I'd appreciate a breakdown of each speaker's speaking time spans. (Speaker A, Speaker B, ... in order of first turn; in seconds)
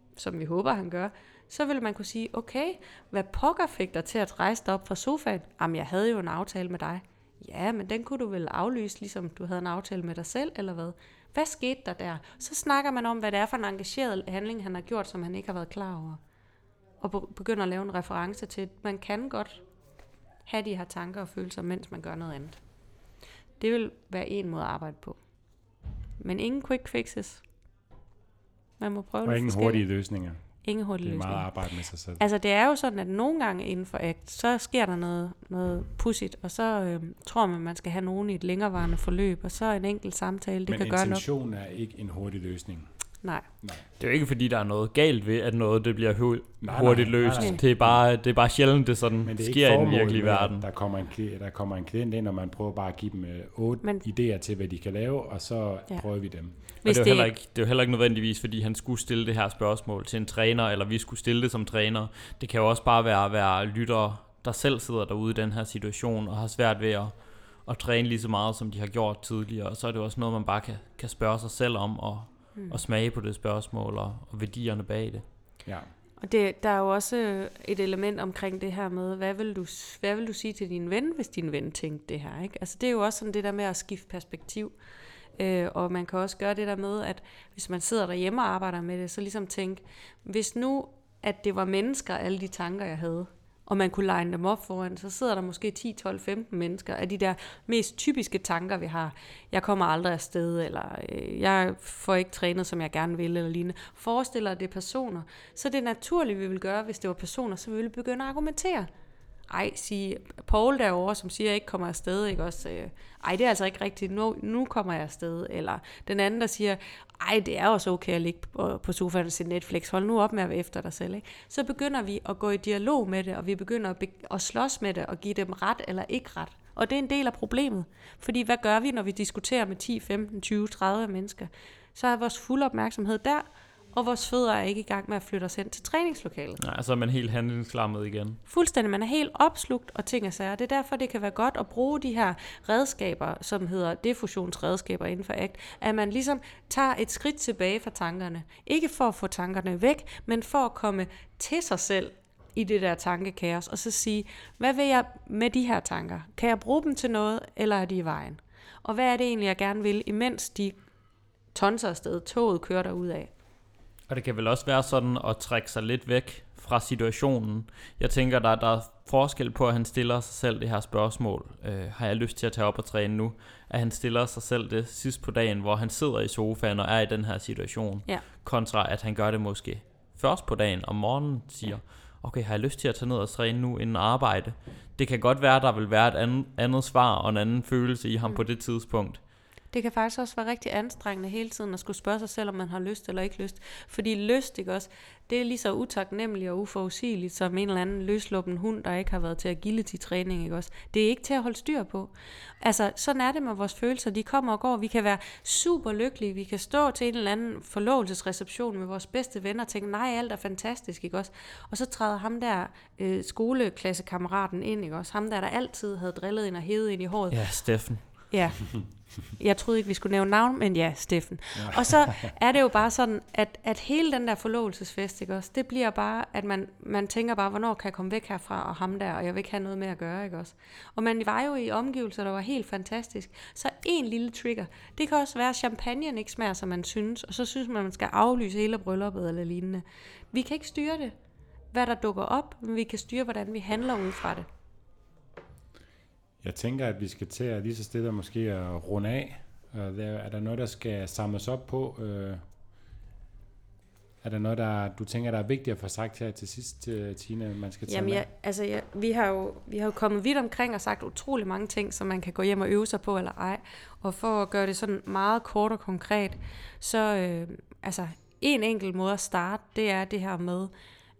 Speaker A: 0.1-16.2, 17.0-19.6, 20.4-22.6, 23.6-25.2, 26.2-27.4, 28.8-29.8, 30.6-31.5, 32.2-41.2, 56.8-57.3, 72.5-72.8, 76.2-84.7, 85.4-108.9, 109.5-136.6, 138.5-160.8, 161.5-163.3, 189.7-217.4, 218.3-241.1, 241.7-244.4, 257.9-270.7
Speaker B: 29.2-30.4, 31.0-32.2, 40.7-42.9, 46.6-48.0, 49.2-56.5, 221.5-222.3, 246.4-252.4, 254.2-258.2
Speaker C: 44.0-50.6, 56.8-67.1, 67.6-75.2, 136.6-138.4, 164.1-189.2, 217.3-218.1